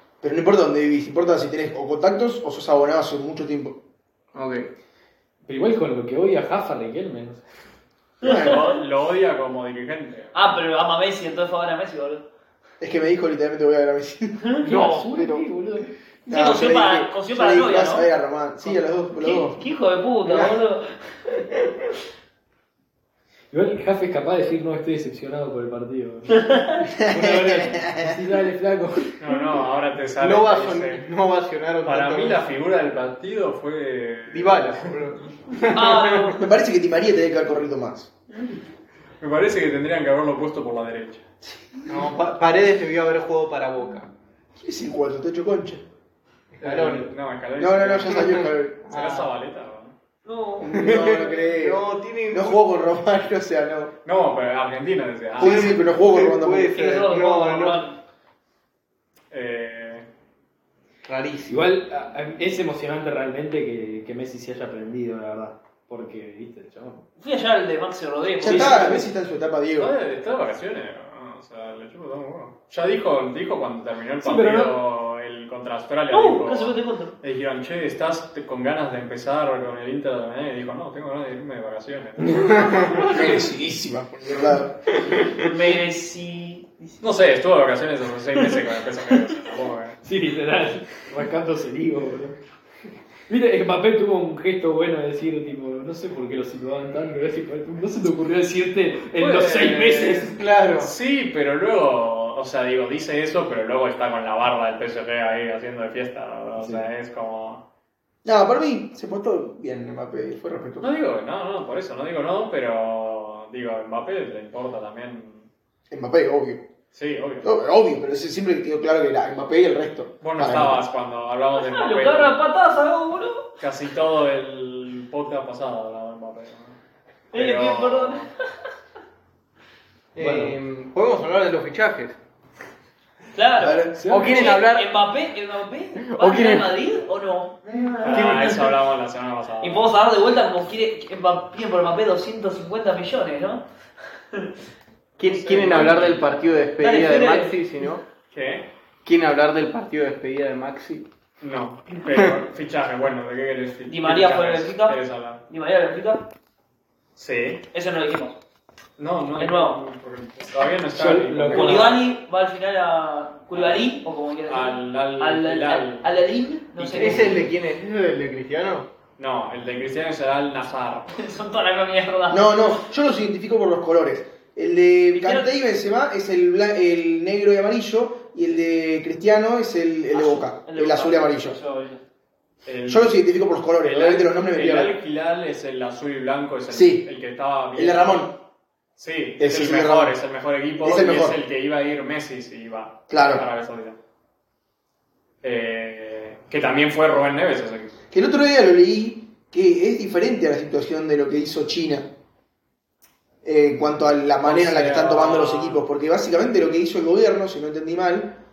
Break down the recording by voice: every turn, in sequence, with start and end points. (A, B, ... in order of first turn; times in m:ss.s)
0:00.2-0:03.8 A
0:04.3-0:04.7 B
0:05.4-0:07.4 C
0:08.2-0:08.8 D
0:08.2-0:08.6 A
0:08.3-0:10.6 E
0:10.3-0:12.2 D
0:12.8-0:15.5 A
0:14.4-0:15.1 D
0:14.6-0:15.9 C
0:16.2-0:19.6 A
0:16.3-0:18.1 D
0:19.2-0:20.9 D
0:23.5-0:29.2 C
0:26.4-0:26.8 D
0:27.0-0:28.1 A
0:29.2-0:31.0 E
0:30.2-0:32.4 B
0:31.8-0:34.9 E
0:34.3-0:36.3 B
0:35.7-0:36.5 D
0:36.4-0:38.1 A
0:39.2-0:41.2 E
0:41.9-0:44.1 B
0:44.6-0:45.8 A
0:46.6-0:47.1 B
0:46.6-0:49.9 E
0:47.6-0:48.8 A
0:48.2-0:49.3 B
0:50.2-0:51.1 D
0:50.6-0:53.9 A
0:50.7-0:52.6 B
0:54.0-0:55.8 E
0:55.4-0:56.8 A
0:55.4-0:57.8 B
0:56.7-0:58.0 D
0:59.3-1:00.0 E
1:01.0-1:01.6 B
1:01.5-1:07.0 C
1:07.2-1:09.0 D
1:08.4-1:09.9 A
1:08.5-1:09.0 C
1:09.8-1:22.9 E
1:14.2-1:14.7 C
1:16.1-1:17.1 D
1:22.3-1:23.2 B
1:22.9-1:25.0 A
1:24.9-1:25.4 B
1:25.3-1:27.0 D
1:27.0-1:30.0 E
1:30.0-1:32.4 C
1:33.3-1:40.4 C
1:39.2-1:40.3 E
1:40.2-1:40.9 B
1:40.8-1:47.6 E
1:46.6-1:46.8 C
1:48.2-1:50.9 A
1:50.8-1:55.5 E
1:55.9-1:56.7 A
1:56.9-1:57.5 E
1:57.4-2:00.8 A
2:00.2-2:02.4 E
2:01.6-2:03.5 D
2:03.6-2:06.8 E
2:07.3-2:08.3 E
2:07.3-2:08.3 D
2:10.1-2:12.2 B
2:10.2-2:10.6 C
2:13.3-2:18.8 D
2:13.6-2:14.0 A
2:14.0-2:14.6 C
2:14.0-2:14.9 B
2:16.0-2:16.7 B
2:18.0-2:19.9 E
2:18.1-2:18.5 B
2:19.6-2:24.5 D
2:25.2-2:28.0 B
2:25.2-2:26.4 E
2:26.8-2:27.5 D
2:28.3-2:28.7 E
2:29.0-2:31.1 B
2:31.4-2:35.4 E
2:33.9-2:35.0 D
2:35.5-2:36.3 D
2:37.2-2:37.6 E
2:37.7-2:38.4 D
2:39.0-2:42.0 E
2:39.4-2:39.8 D
2:40.9-2:42.0 C
2:41.5-2:47.4 D
2:43.5-2:43.9 E
2:44.4-2:46.1 E
2:46.8-2:47.5 E
2:46.9-2:48.9 B
2:49.2-2:51.2 E
2:51.2-2:52.7 D
2:52.3-3:01.6 A
2:55.1-2:55.5 D
3:00.1-3:02.0 D
3:02.6-3:03.2 E
3:02.9-3:05.0 A
3:03.8-3:08.3 E
3:06.7-3:07.0 A
3:07.7-3:08.3 A
3:09.0-3:14.0 E
3:09.4-3:10.2 A
3:10.8-3:11.4 A
3:13.1-3:13.4 A
3:15.4-3:17.9 E
3:18.1-3:22.1 A
3:23.4-3:28.4 A
3:24.4-3:25.9 E